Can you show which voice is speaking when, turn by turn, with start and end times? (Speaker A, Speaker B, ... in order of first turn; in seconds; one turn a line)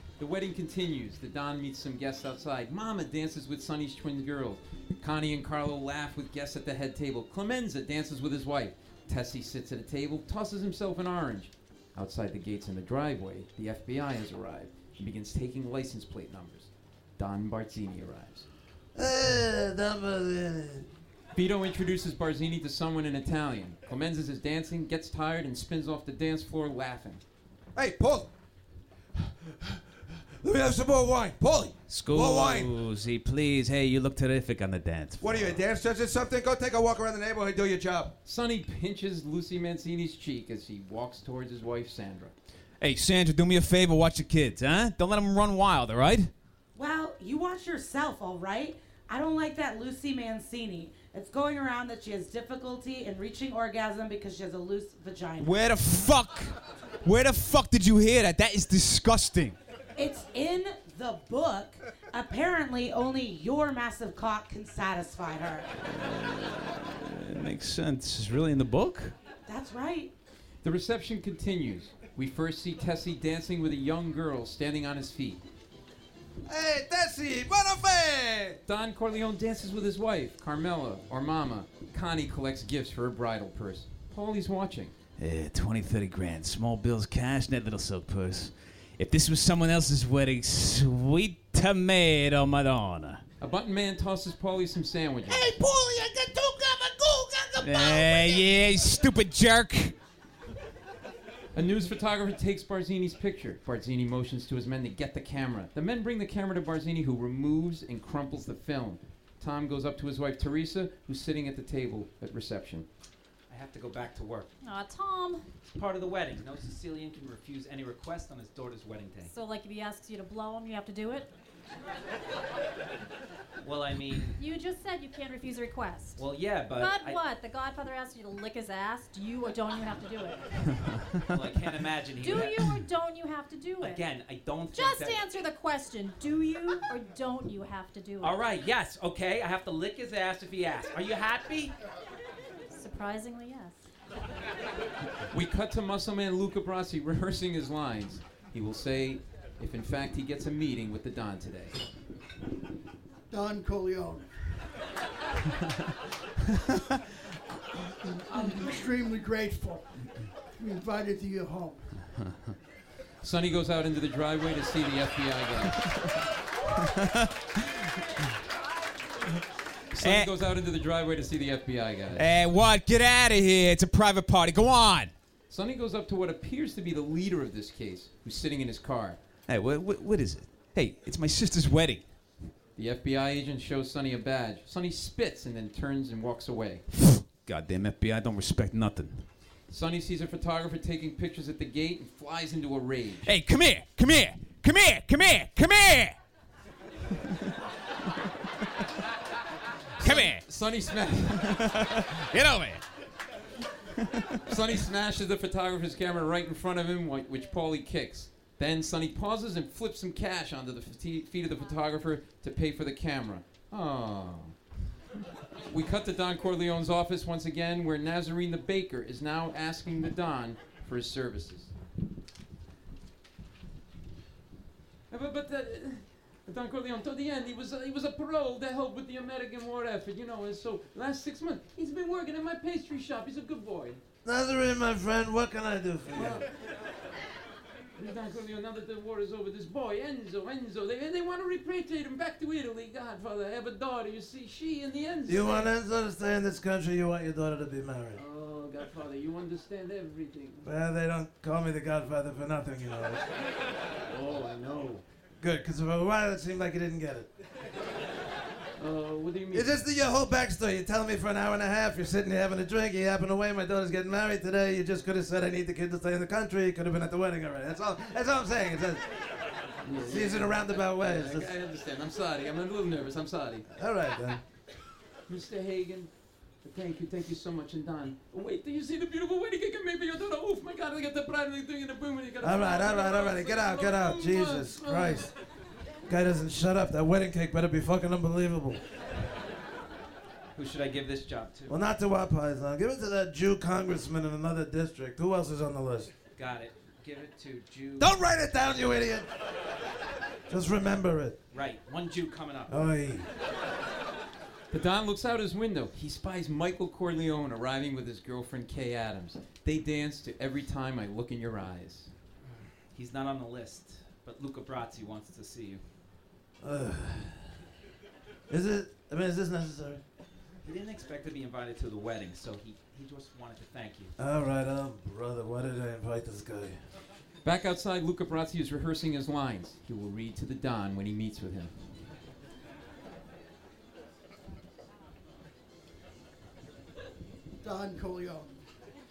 Speaker A: 0.2-18.5
Speaker B: 18.9-20.9
Speaker A: 21.4-27.2
Speaker C: 27.8-28.3
Speaker C: 30.4-32.7
Speaker D: 31.9-35.6
Speaker C: 35.2-38.1
Speaker A: 38.2-42.3
Speaker D: 42.8-46.3
Speaker E: 46.8-55.6
Speaker D: 55.4-59.6
Speaker E: 60.0-65.7
Speaker D: 65.8-69.2
Speaker E: 69.5-70.1
Speaker A: 70.6-75.4
Speaker B: 76.5-78.6
Speaker A: 78.7-85.0
Speaker D: 85.2-93.2
Speaker A: 93.4-95.5
Speaker B: 95.3-98.4
Speaker D: 97.6-100.0
Speaker A: 101.5-112.9
Speaker F: 113.5-114.5
Speaker G: 114.6-115.4
Speaker F: 115.7-119.3
Speaker G: 119.3-121.3
Speaker F: 123.6-124.4
Speaker G: 124.4-130.6
Speaker F: 126.2-127.2
Speaker F: 131.3-132.8
Speaker G: 132.2-134.1
Speaker F: 133.8-135.4
Speaker G: 134.7-138.4
Speaker F: 138.2-141.8
Speaker G: 142.7-143.8
Speaker A: 145.3-151.8
Speaker H: 153.3-154.8
Speaker H: 158.3-162.1
Speaker D: 162.2-162.5
Speaker A: 163.2-165.9
Speaker A: 169.9-172.2
Speaker D: 170.0-170.3
Speaker D: 172.2-175.1
Speaker A: 175.5-179.2
Speaker D: 179.5-182.2
Speaker A: 182.8-186.8
Speaker D: 186.9-189.3
Speaker A: 189.7-193.3
Speaker D: 193.2-196.2
Speaker A: 200.0-201.6
Speaker D: 200.0-200.5
Speaker D: 201.4-202.8
Speaker A: 204.5-214.6
Speaker A: 215.7-221.7
Speaker A: 225.1-234.0
Speaker B: 234.2-236.4
Speaker A: 236.2-236.4
Speaker A: 238.0-245.7
Speaker B: 245.3-248.2
Speaker A: 248.2-250.7
Speaker B: 250.6-253.2
Speaker A: 254.1-255.0
Speaker B: 255.4-257.3
Speaker A: 258.8-259.8
Speaker B: 259.5-269.1
Speaker A: 269.8-273.6
Speaker B: 270.0-271.5
Speaker B: 273.7-274.4
Speaker A: 275.3-285.3
Speaker B: 282.4-285.3
Speaker B: 286.1-288.8
Speaker F: 290.6-291.8
Speaker B: 291.7-296.1
Speaker F: 296.4-298.2
Speaker B: 298.0-299.3
Speaker B: 300.5-301.4
Speaker F: 301.5-302.9
Speaker B: 302.7-303.3
Speaker A: 304.7-312.1
Speaker F: 312.9-315.8
Speaker B: 316.6-317.5
Speaker B: 318.5-320.0
Speaker F: 320.6-324.1
Speaker B: 324.2-326.8
Speaker A: 327.4-331.8
Speaker H: 337.6-338.6